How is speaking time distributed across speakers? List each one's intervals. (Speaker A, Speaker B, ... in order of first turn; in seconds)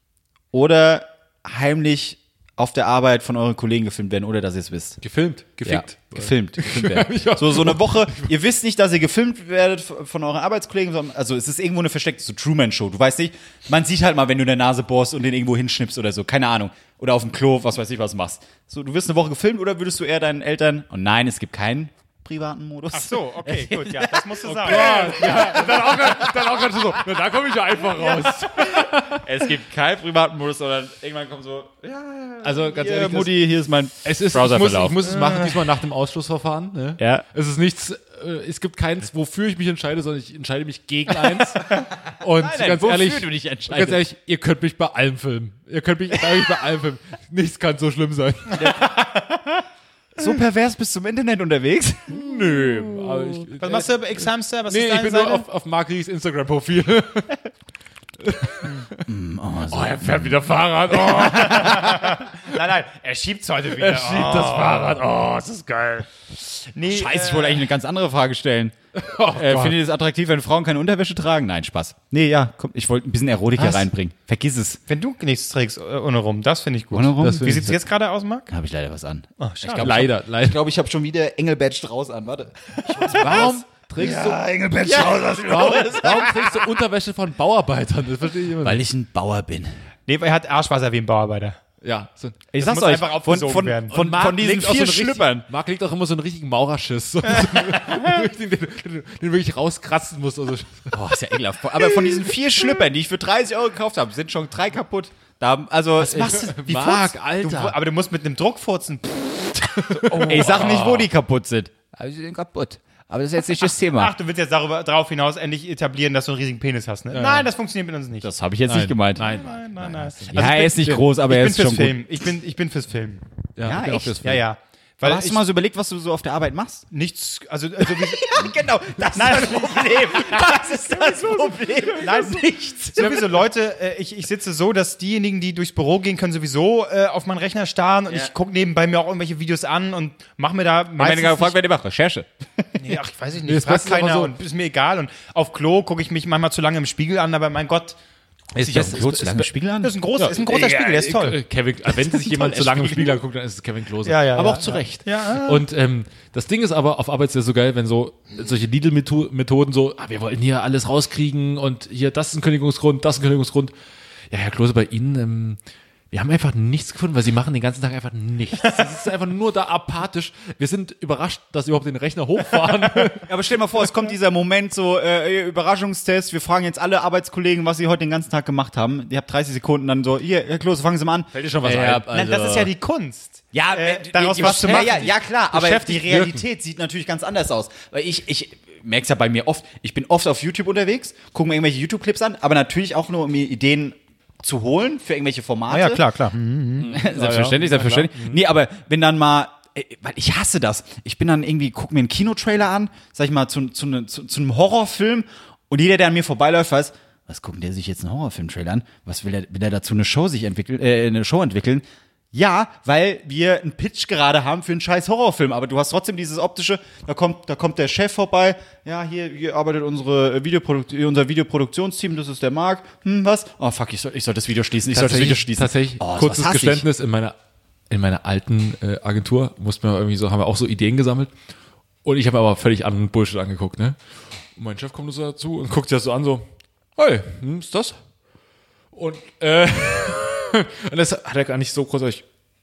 Speaker A: 0.5-5.0, 5.6-26.6, 28.1-35.0, 37.0-37.2, 41.7-44.0, 48.6-49.2, 50.2-52.2, 59.0-60.4, 66.9-68.8, 69.3-74.8, 76.9-77.7, 78.5-86.5, 88.6-89.7, 92.5-95.5, 100.9-107.1, 110.2-114.1, 118.2-119.4, 120.3-122.0, 123.6-124.2, 125.0-126.9, 128.0-133.2, 141.0-142.8, 148.6-149.9, 151.9-153.2, 173.2-182.6, 183.5-196.0, 196.8-226.8
Speaker B: 5.0-8.3, 24.5-29.2, 32.4-33.4, 34.0-48.7, 52.1-54.1, 54.7-57.5, 58.2-59.0, 59.7-62.4, 63.8-66.1, 69.0-69.8, 77.2-77.8, 79.7-80.6, 83.1-88.8, 91.8-92.4, 93.9-101.2, 106.0-107.8, 109.7-111.1, 117.1-117.5, 118.7-121.0, 123.6-124.4, 133.0-133.3, 143.4-144.3, 148.6-149.5, 150.2-163.7, 164.3-165.6, 166.1-173.3, 181.3-182.7, 184.4-184.8, 196.8-198.4, 224.9-227.3, 227.9-231.3, 232.1-234.0, 234.6-238.0, 238.9-242.2
Speaker C: 22.9-25.7, 35.1-35.6, 53.6-55.5, 60.9-65.0, 66.6-67.7, 74.9-78.5, 79.4-80.1, 83.0-83.5, 84.0-84.4, 85.0-85.6, 90.1-91.6, 92.6-94.0, 97.3-98.2, 107.4-111.0, 113.8-118.3, 119.2-123.2, 124.1-125.4, 126.9-128.6, 129.1-141.6, 142.8-148.0, 149.8-151.4, 154.1-155.7, 182.1-186.4, 195.7-196.9